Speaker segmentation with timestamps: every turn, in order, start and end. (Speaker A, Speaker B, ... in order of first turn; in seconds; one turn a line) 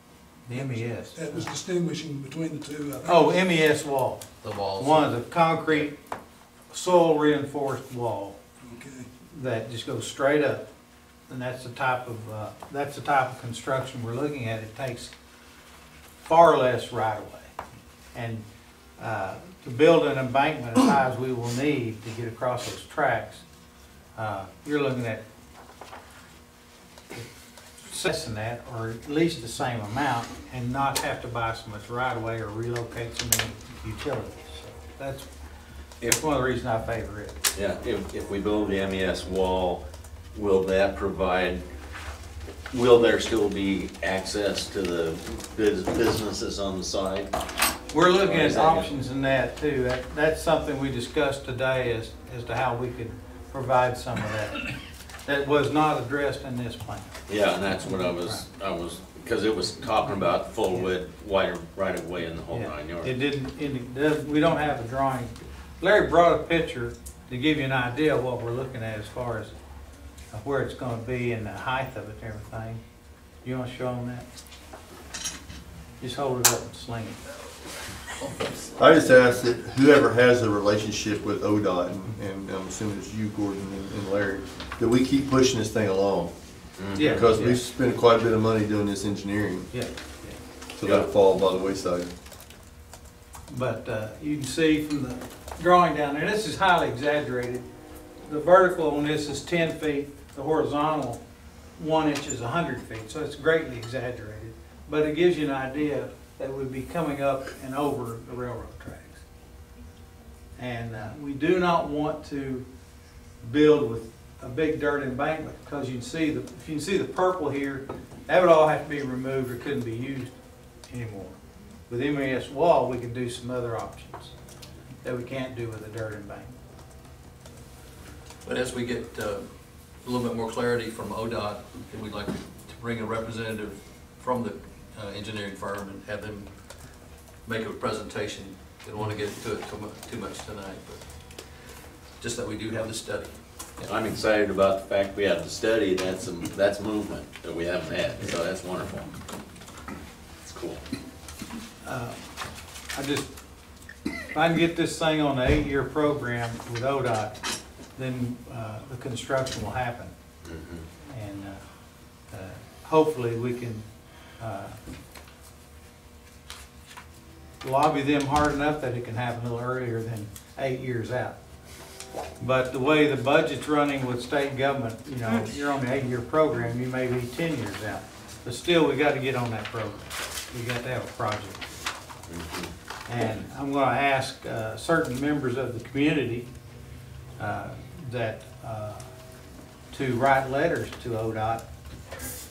Speaker A: 0.5-1.5
Speaker B: 0.5-3.4
Speaker A: 3.0-6.0
Speaker C: 4.4-5.9
Speaker A: 6.7-8.4
Speaker B: 8.7-9.1
Speaker A: 9.3-10.7
Speaker A: 11.3-15.1
Speaker A: 16.2-17.5
Speaker A: 18.1-18.4
Speaker A: 19.0-23.4
Speaker A: 24.1-25.2
Speaker A: 27.9-35.3
Speaker A: 36.0-37.3
Speaker D: 37.5-41.6
Speaker D: 42.7-47.3
Speaker A: 47.9-57.1
Speaker D: 48.1-48.9
Speaker D: 57.3-63.1
Speaker A: 58.0-58.4
Speaker A: 62.5-69.5
Speaker A: 70.3-72.8
Speaker A: 73.4-74.2
Speaker A: 76.0-77.2
Speaker E: 78.8-86.3
Speaker D: 86.8-87.4
Speaker A: 86.9-87.6
Speaker E: 87.0-89.7
Speaker A: 89.7-90.4
Speaker E: 90.7-92.1
Speaker A: 93.5-97.7
Speaker A: 98.2-101.2
Speaker A: 101.8-109.2
Speaker A: 110.6-112.7
Speaker A: 113.4-120.4
Speaker A: 120.9-121.3
Speaker A: 121.9-124.3
Speaker A: 125.0-126.5
Speaker C: 128.4-136.8
Speaker C: 137.4-141.5
Speaker C: 142.2-143.9
Speaker D: 143.8-149.1
Speaker D: 150.4-150.8
Speaker A: 151.8-152.2
Speaker A: 152.9-153.3
Speaker A: 154.3-157.4
Speaker A: 157.9-160.1
Speaker D: 160.4-160.8
Speaker A: 161.1-161.6
Speaker A: 162.3-163.8
Speaker A: 164.4-164.8
Speaker A: 167.6-171.4
Speaker A: 172.4-181.6
Speaker D: 182.3-182.7
Speaker A: 183.1-186.5
Speaker A: 187.4-189.0
Speaker A: 189.9-191.7